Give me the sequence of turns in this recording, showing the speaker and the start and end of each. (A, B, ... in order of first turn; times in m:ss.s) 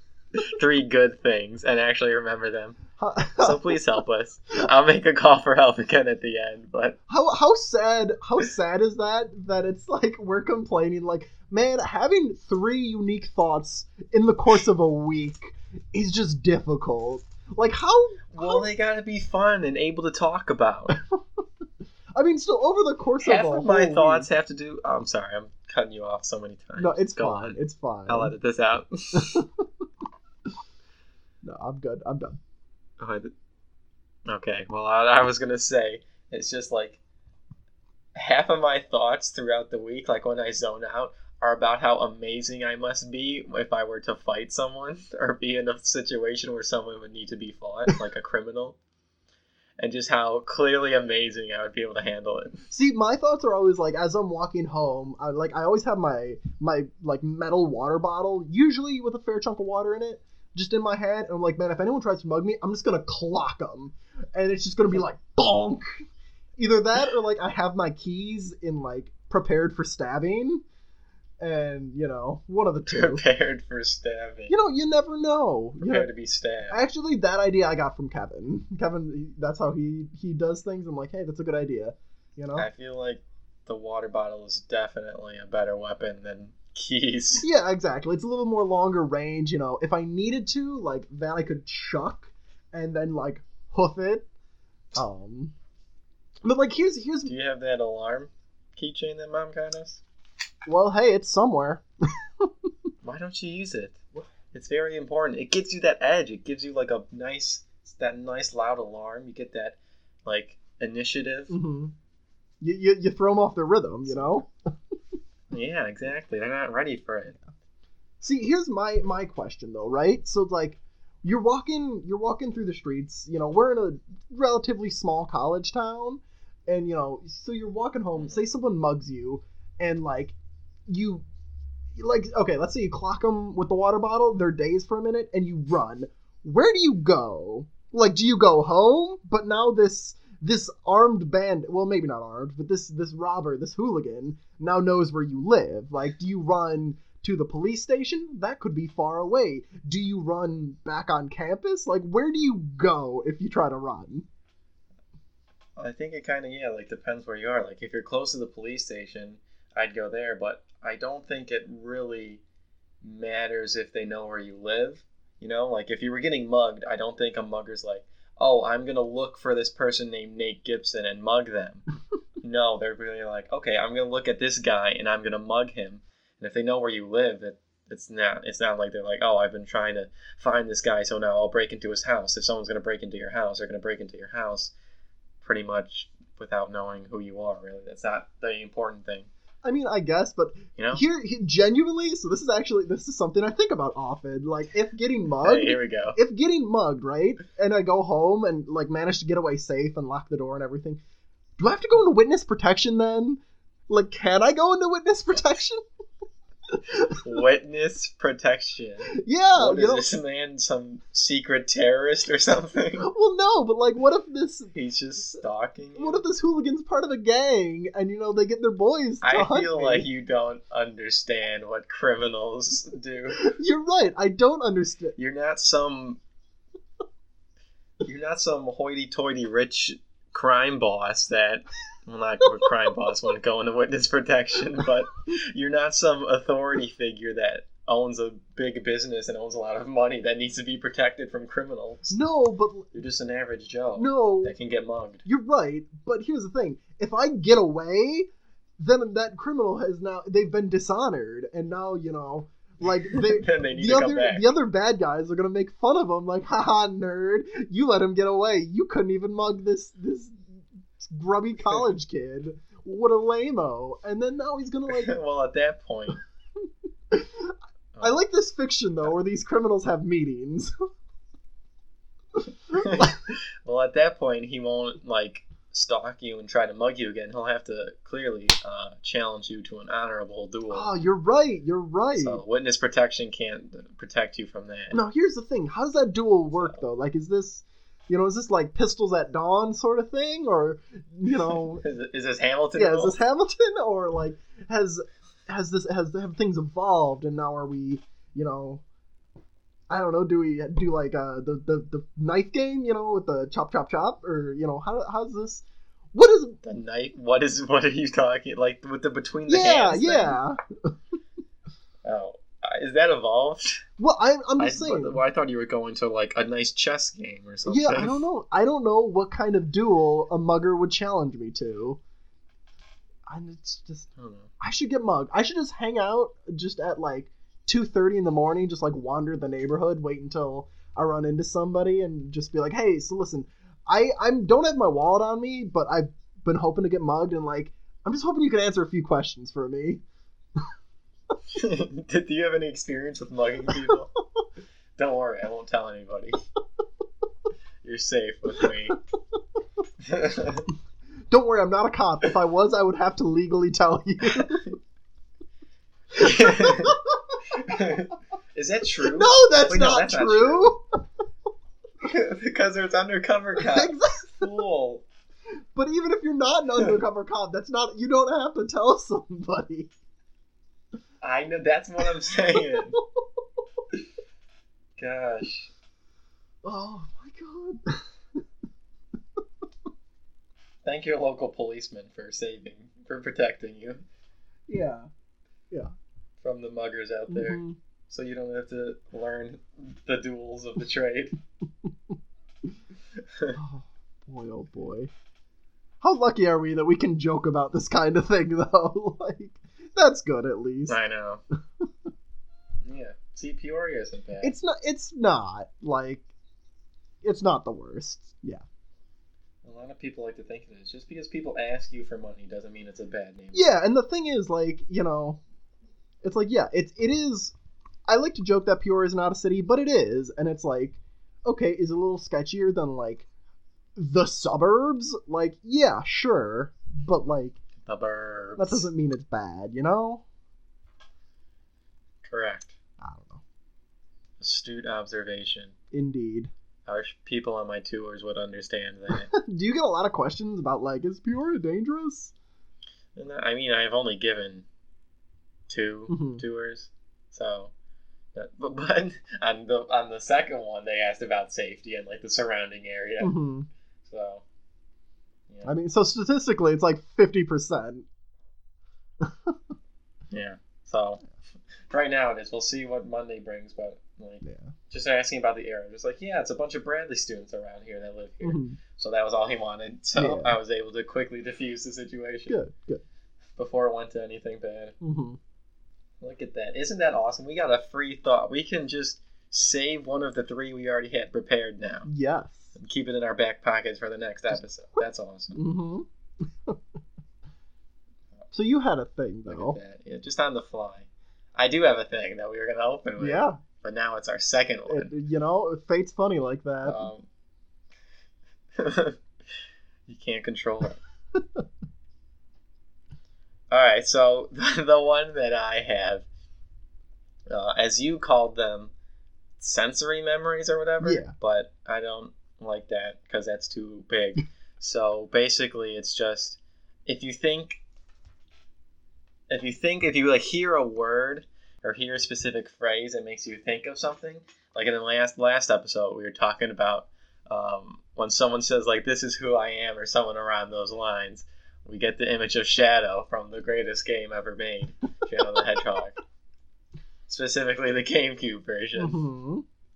0:00.4-0:02.8 A
0:03.0-0:03.8 B
0:03.4-0:07.0 A
0:07.1-0:18.6 B
0:18.3-0:21.0 A
0:20.9-0:21.2 B
0:22.2-0:24.3 B
0:23.2-0:29.4 A
0:26.8-0:28.3 B
0:29.2-0:29.7 B
0:31.4-0:32.4 B
0:33.0-0:33.3 A
0:34.3-0:37.0 A
0:38.2-0:48.8 A
0:49.8-0:52.6 A
0:52.7-1:06.0 B
1:06.6-1:10.6 B
1:11.4-1:13.2 B
1:12.9-1:14.5 A
1:14.5-1:16.1 B
1:15.8-1:16.8 A
1:16.7-1:22.7 B
1:22.6-1:27.4 A
1:27.4-1:34.3 B
1:35.0-1:35.5 B
1:36.4-1:37.3 B
1:37.3-1:40.0 A
1:40.7-1:41.8 B
1:42.4-1:42.7 B
1:43.0-1:44.0 A
1:44.5-1:51.5 A
1:51.5-1:52.0 B
1:52.6-1:54.5 B
1:54.1-1:54.4 A
1:55.5-1:57.4 A
1:58.2-2:10.4 B
2:10.9-2:11.2 B
2:12.0-2:34.3 B
2:35.8-2:42.4 A
2:43.0-2:51.8 A
2:52.4-3:04.7 A
3:05.4-3:09.3 A
3:09.6-3:21.0 B
3:10.8-3:11.0 A
3:15.4-3:16.2 A
3:21.6-3:25.8 B
3:26.7-3:27.2 B
3:27.2-3:33.1 A
3:29.1-3:30.1 B
3:33.0-3:34.8 B
3:34.7-3:36.2 A
3:36.0-3:40.1 B
3:39.2-3:43.4 A
3:43.4-3:45.2 B
3:45.2-3:46.2 A
3:48.0-4:02.2 A
4:02.1-4:02.9 B
4:02.9-4:05.2 A
4:04.0-4:04.6 B
4:05.2-4:08.3 B
4:08.8-4:20.4 B
4:13.0-4:14.5 A
4:21.0-4:25.2 B
4:24.9-4:26.2 A
4:27.1-4:30.7 B
4:28.0-4:28.2 A
4:32.7-4:40.9 A
4:32.8-4:33.1 B
4:40.7-4:42.4 B
4:42.2-4:45.0 A
4:44.9-4:51.8 B
4:51.5-4:53.2 A
4:52.8-4:58.8 B
4:59.9-5:06.6 B
5:06.6-5:10.4 A
5:09.5-5:10.9 B
5:12.0-5:13.8 A
5:14.0-5:15.2 B
5:14.6-5:18.2 A
5:17.7-5:22.0 B
5:23.3-5:40.0 B
5:24.2-5:24.5 A
5:41.5-5:44.1 A
5:43.7-5:43.9 B
5:45.0-5:46.4 A
5:47.8-5:49.0 A
5:48.6-5:48.9 B
5:50.0-5:50.7 A
5:51.3-5:54.7 B
5:54.3-5:54.7 A
5:56.2-5:57.6 B
5:56.2-5:57.0 A
5:57.5-6:00.7 A
5:59.0-6:00.8 B
6:02.0-6:05.1 A
6:03.6-6:04.5 B
6:05.8-6:09.9 B
6:11.2-6:13.0 A
6:15.0-6:15.7 A
6:16.6-6:18.4 B
6:20.8-6:24.0 A
6:24.7-6:25.1 B
6:26.4-6:31.4 A
6:27.3-6:27.8 B
6:33.2-6:33.6 A
6:33.5-6:35.1 B
6:36.0-6:41.0 B
6:40.9-6:41.4 A
6:42.8-6:44.6 A
6:44.4-6:46.3 B
6:47.2-6:48.6 B
6:49.6-6:53.7 A
6:53.5-6:55.4 B
6:56.2-6:57.6 B
6:58.1-7:03.3 B
7:04.0-7:07.6 B
7:07.8-7:08.9 A
7:08.6-7:10.2 B
7:12.2-7:12.7 A
7:13.0-7:13.4 B
7:14.4-7:15.7 A
7:15.9-7:16.5 B
7:16.9-7:19.3 A
7:19.1-7:22.3 B
7:23.2-7:24.7 A
7:25.7-7:27.7 A
7:26.1-7:26.4 B
7:28.3-7:33.3 A
7:33.2-7:33.7 B
7:34.0-7:34.4 A
7:35.6-7:38.1 B
7:39.2-7:39.6 B
7:40.3-7:41.2 A
7:41.9-7:52.6 A
7:44.4-7:44.8 B
7:48.4-7:48.8 B
7:50.2-7:50.6 B
7:52.5-7:53.0 B
7:53.6-7:55.0 A
7:55.0-7:55.4 B
7:56.2-8:02.1 A
8:02.1-8:02.8 B
8:02.8-8:05.6 A
8:05.6-8:06.1 B
8:08.5-8:09.8 B
8:09.5-8:15.1 A
8:13.2-8:13.6 B
8:14.9-8:17.1 B
8:16.8-8:17.3 A
8:18.8-8:19.2 A
8:20.1-8:21.0 A
8:21.4-8:21.6 B
8:23.7-8:26.3 A
8:27.5-8:28.9 A
8:29.6-8:37.8 A
8:31.0-8:31.3 B
8:39.5-8:56.2 A
8:57.3-8:59.2 A
8:59.0-8:59.6 B